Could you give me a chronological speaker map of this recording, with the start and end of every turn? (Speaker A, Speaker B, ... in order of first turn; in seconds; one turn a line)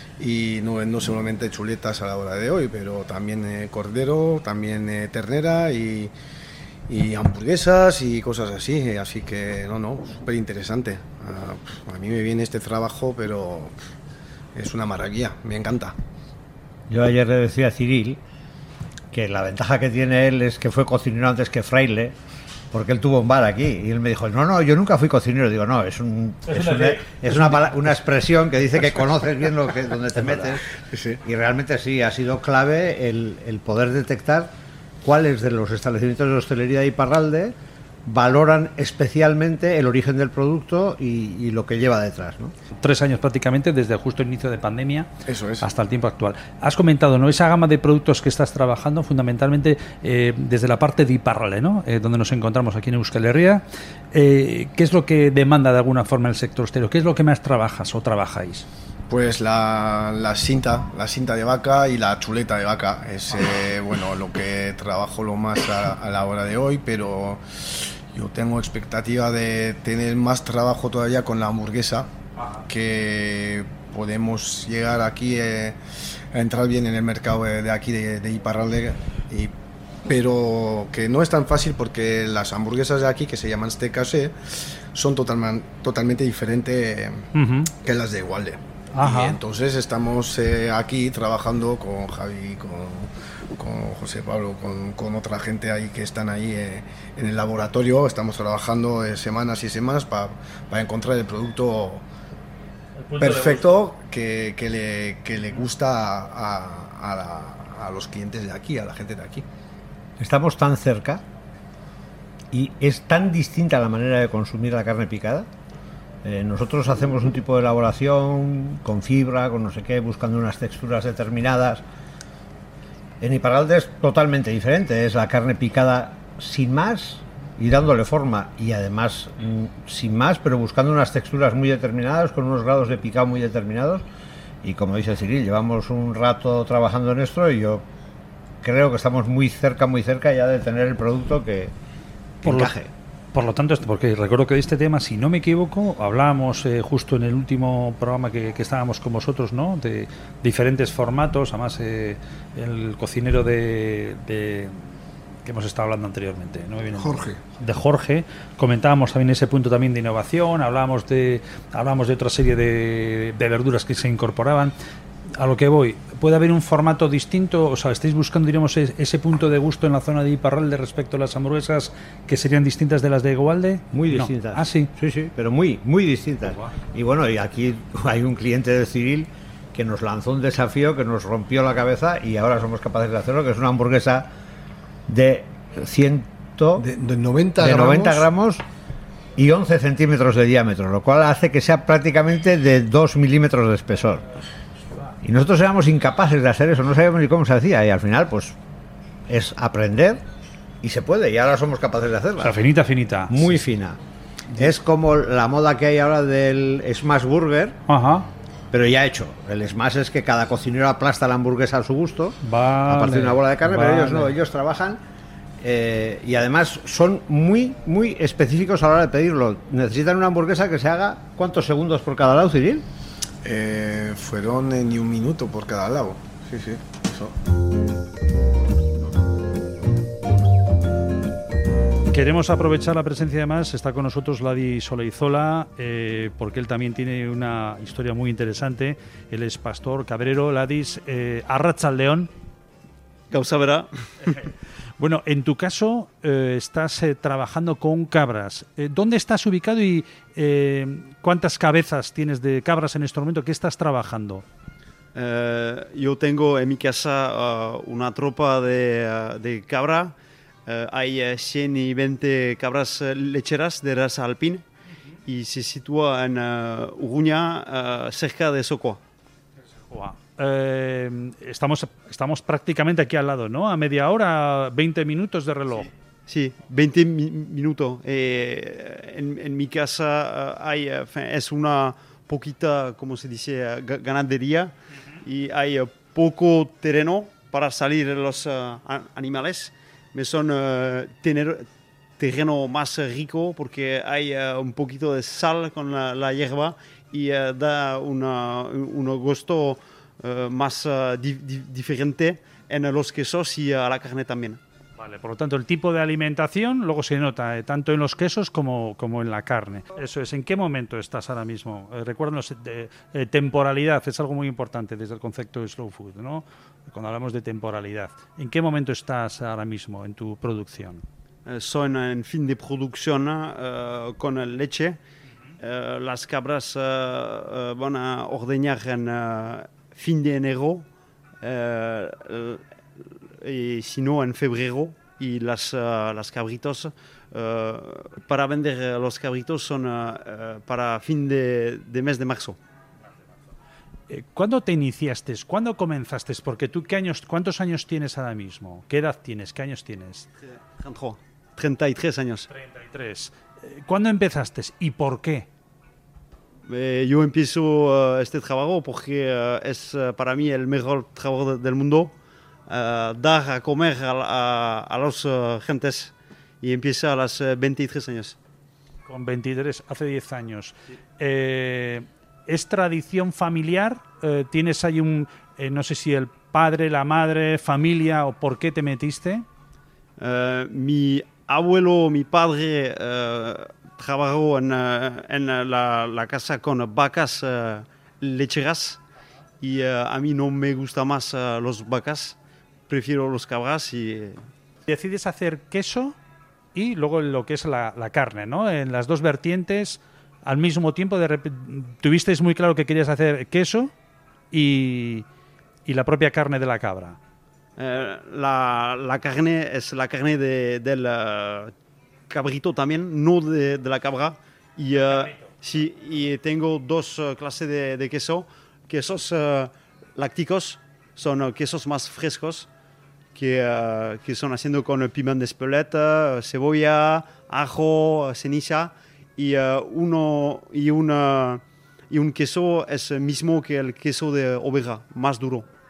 Speaker A: 0.2-6.1
Speaker A: 6.9-13.7
Speaker A: 14.6-15.9
Speaker B: 16.9-18.2
Speaker B: 19.1-22.1
Speaker B: 22.7-42.5
Speaker C: 26.5-28.0
Speaker A: 30.9-31.2
Speaker C: 42.8-45.1
Speaker A: 45.3-45.7
Speaker C: 45.6-58.7
Speaker A: 59.1-72.1
Speaker A: 72.7-75.8
Speaker A: 76.3-79.5
Speaker A: 80.1-102.0
Speaker C: 87.3-87.7
Speaker C: 89.0-89.4
Speaker C: 103.0-103.7
Speaker A: 103.2-109.5
Speaker B: 110.2-111.2
Speaker B: 112.5-115.5
Speaker B: 116.2-121.8
Speaker B: 123.2-134.1
Speaker B: 134.6-137.9
Speaker B: 138.6-141.7
Speaker B: 142.4-142.9
Speaker C: 142.4-142.7
Speaker C: 143.3-154.9
Speaker C: 155.4-164.7
Speaker D: 156.9-157.4
Speaker C: 165.4-174.9
Speaker B: 173.9-184.3
Speaker B: 185.1-186.9
Speaker D: 186.8-188.3
Speaker B: 187.6-188.6
Speaker B: 189.4-194.2
Speaker B: 195.2-198.6
Speaker B: 199.3-200.2
Speaker B: 200.8-202.6
Speaker C: 202.4-203.6
Speaker B: 203.3-204.0
Speaker B: 204.6-207.8
Speaker C: 207.9-208.3
Speaker B: 208.7-215.0
Speaker C: 212.4-214.3
Speaker B: 215.6-222.8
Speaker A: 223.4-227.3
Speaker C: 232.1-242.3
Speaker E: 243.3-244.3
Speaker C: 245.0-254.4
Speaker E: 255.2-260.1
Speaker E: 260.7-264.6
Speaker E: 265.3-269.0
Speaker C: 269.9-275.9
Speaker E: 276.3-291.7
Speaker E: 292.2-304.6
Speaker C: 305.0-321.1
Speaker E: 321.5-325.0
Speaker E: 325.6-330.9
Speaker E: 331.4-332.6
Speaker E: 333.4-342.6
Speaker C: 344.1-350.3
Speaker E: 350.7-352.5
Speaker C: 352.5-355.5
Speaker E: 356.7-362.1
Speaker E: 362.7-368.4
Speaker C: 369.1-379.4
Speaker E: 380.2-389.0
Speaker E: 389.6-392.4
Speaker E: 392.9-394.4
Speaker C: 394.9-396.2
Speaker C: 396.8-403.9
Speaker C: 404.5-405.3
Speaker C: 405.9-407.2
Speaker E: 407.8-411.7
Speaker E: 412.3-422.7
Speaker E: 423.4-435.7